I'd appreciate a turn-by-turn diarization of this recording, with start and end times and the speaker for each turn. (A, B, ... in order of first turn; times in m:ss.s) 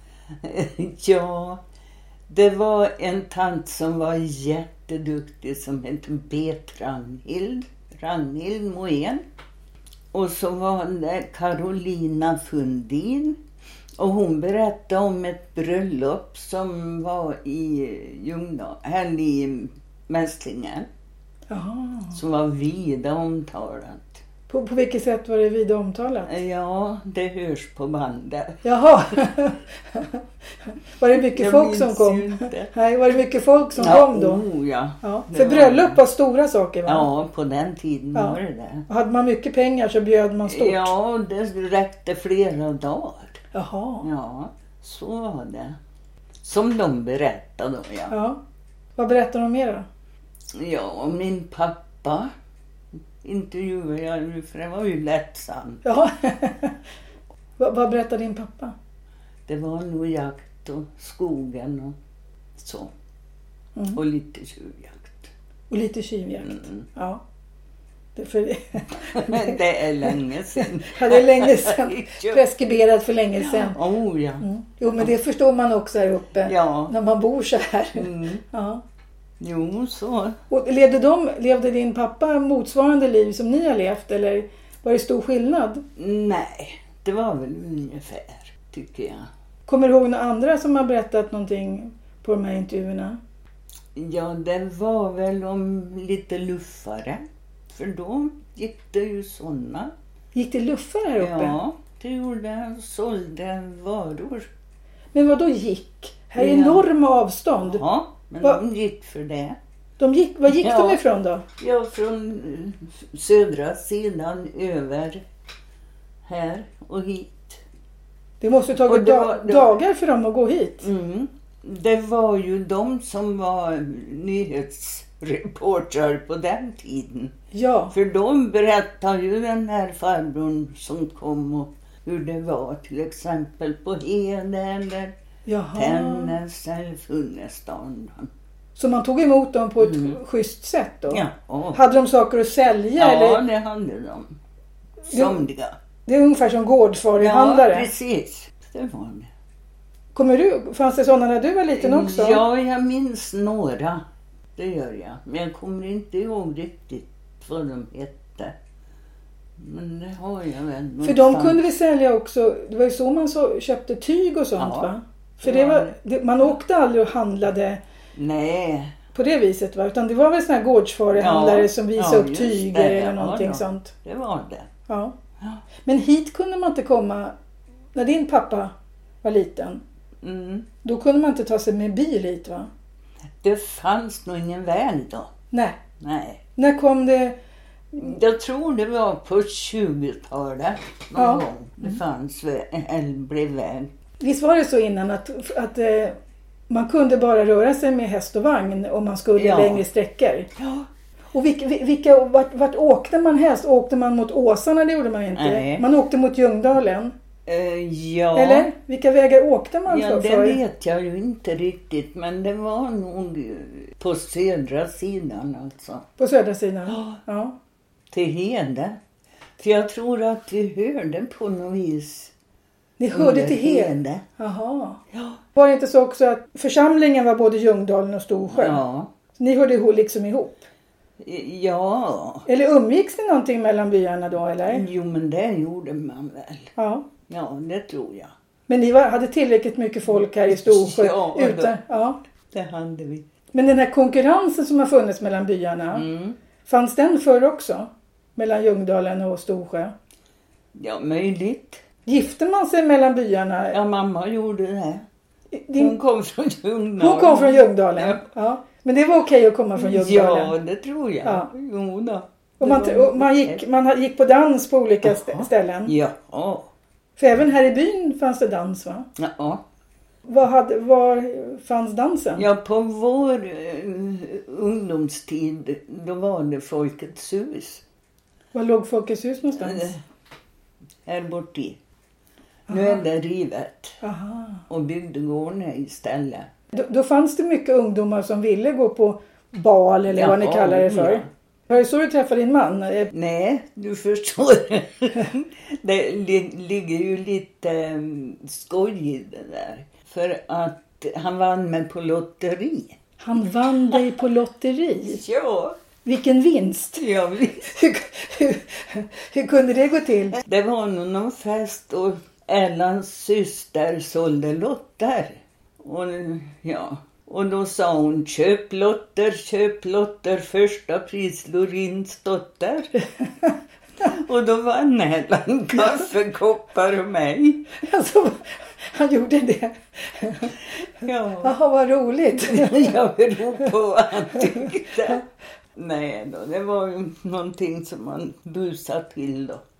0:00.4-0:01.6 A
0:02.3-0:09.2 A
0:10.1-0:13.4 A
0:14.0-0:20.9 A
0:21.5-0:22.2 B
0:22.1-0:24.2 A
0:24.5-0:26.3 B
0:26.2-0:28.6 A
0:28.6-0:34.4 B
0:31.1-0:32.7 A
0:33.8-0:36.0 A
0:35.0-0:37.1 B
0:36.8-0:38.8 A
0:38.1-0:40.9 B
0:40.4-0:43.4 A
0:43.5-0:44.1 B
0:44.0-0:45.8 A
0:46.4-0:48.1 A
0:48.1-0:48.4 B
0:49.0-0:49.8 B
0:50.5-0:52.3 A
0:53.2-0:55.8 A
0:55.8-0:56.8 B
0:57.6-0:58.7 B
0:59.5-1:02.0 A
1:02.6-1:02.9 A
1:03.9-1:05.3 A
1:05.7-1:07.2 B
1:06.4-1:06.8 A
1:08.2-1:13.8 B
1:09.0-1:12.4 A
1:13.4-1:14.4 A
1:14.4-1:18.8 B
1:16.4-1:16.9 A
1:18.0-1:18.4 A
1:19.4-1:20.4 A
1:20.5-1:25.8 B
1:26.0-1:29.3 A
1:29.7-1:33.2 B
1:33.9-1:39.9 A
1:40.3-1:41.6 B
1:41.2-1:44.5 A
1:45.1-1:47.8 B
1:46.4-1:46.8 A
1:47.6-1:49.6 A
1:50.0-1:51.4 B
1:50.5-1:51.0 A
1:51.6-1:55.2 A
1:56.2-1:57.6 A
1:58.4-2:00.9 B
1:58.8-1:59.7 A
2:00.8-2:07.3 A
2:07.5-2:07.9 B
2:07.9-2:15.1 A
2:15.5-2:16.4 B
2:15.7-2:18.3 A
2:18.8-2:23.4 B
2:19.8-2:20.2 A
2:21.1-2:21.8 A
2:23.0-2:24.4 A
2:25.1-2:25.4 B
2:25.1-2:25.8 A
2:26.0-2:27.9 B
2:27.2-2:29.3 A
2:30.1-2:32.4 B
2:31.8-2:34.0 A
2:34.6-2:38.5 A
2:39.6-2:41.6 A
2:41.0-2:47.8 B
2:44.6-2:44.9 A
2:45.4-2:45.9 A
2:48.1-2:49.0 A
2:49.1-2:53.9 B
2:51.1-2:54.7 A
2:54.9-2:55.1 B
2:55.8-2:57.3 B
2:57.9-2:59.8 B
3:00.2-3:00.7 A
3:00.8-3:02.7 B
3:03.4-3:05.3 A
3:05.5-3:05.8 B
3:06.0-3:06.4 A
3:06.6-3:07.4 B
3:08.0-3:13.9 A
3:11.2-3:11.4 B
3:14.2-3:16.2 B
3:16.7-3:20.5 B
3:19.4-3:19.8 A
3:20.6-3:20.9 A
3:21.3-3:27.1 B
3:25.3-3:25.8 A
3:27.4-3:28.7 A
3:28.3-3:30.6 B
3:29.9-3:36.0 A
3:36.2-3:37.6 B
3:36.9-3:37.2 A
3:38.1-3:39.0 A
3:39.6-3:42.3 A
3:43.0-3:45.0 B
3:43.1-3:44.2 A
3:45.1-3:45.4 A
3:45.5-3:48.8 B
3:48.5-3:49.1 A
3:49.4-3:50.7 B
3:51.2-3:52.4 A
3:52.4-3:54.8 B
3:54.7-3:56.7 A
3:56.8-3:57.1 B
3:57.3-3:58.3 A
3:58.7-4:02.2 B
4:00.5-4:01.8 A
4:02.5-4:03.2 A
4:03.5-4:06.0 B
4:05.9-4:06.4 A
4:06.6-4:09.9 B
4:10.7-4:11.8 A
4:12.0-4:13.8 B
4:13.7-4:15.0 A
4:15.5-4:16.0 B
4:15.7-4:18.2 A
4:17.0-4:20.5 B
4:19.8-4:23.6 A
4:21.2-4:21.5 B
4:22.6-4:25.9 B
4:25.0-4:26.7 A
4:27.2-4:29.1 B
4:29.2-4:29.6 A
4:30.3-4:32.5 B
4:32.4-4:37.8 A
4:38.5-4:39.9 B
4:39.6-4:40.0 A
4:41.0-4:41.8 A
4:42.7-4:43.0 B
4:42.7-4:44.0 A
4:44.0-4:44.6 B
4:44.7-4:46.5 A
4:46.7-4:53.1 B
4:50.1-4:51.3 A
4:53.1-5:03.0 A
5:03.2-5:05.2 B
5:05.0-5:05.8 A
5:06.0-5:07.0 B
5:07.0-5:07.8 A
5:07.6-5:10.4 B
5:10.4-5:22.9 A
5:24.0-5:27.7 A
5:27.8-5:30.6 B
5:31.0-5:31.5 A
5:31.4-5:32.9 B
5:32.3-5:35.2 A
5:35.8-5:39.6 A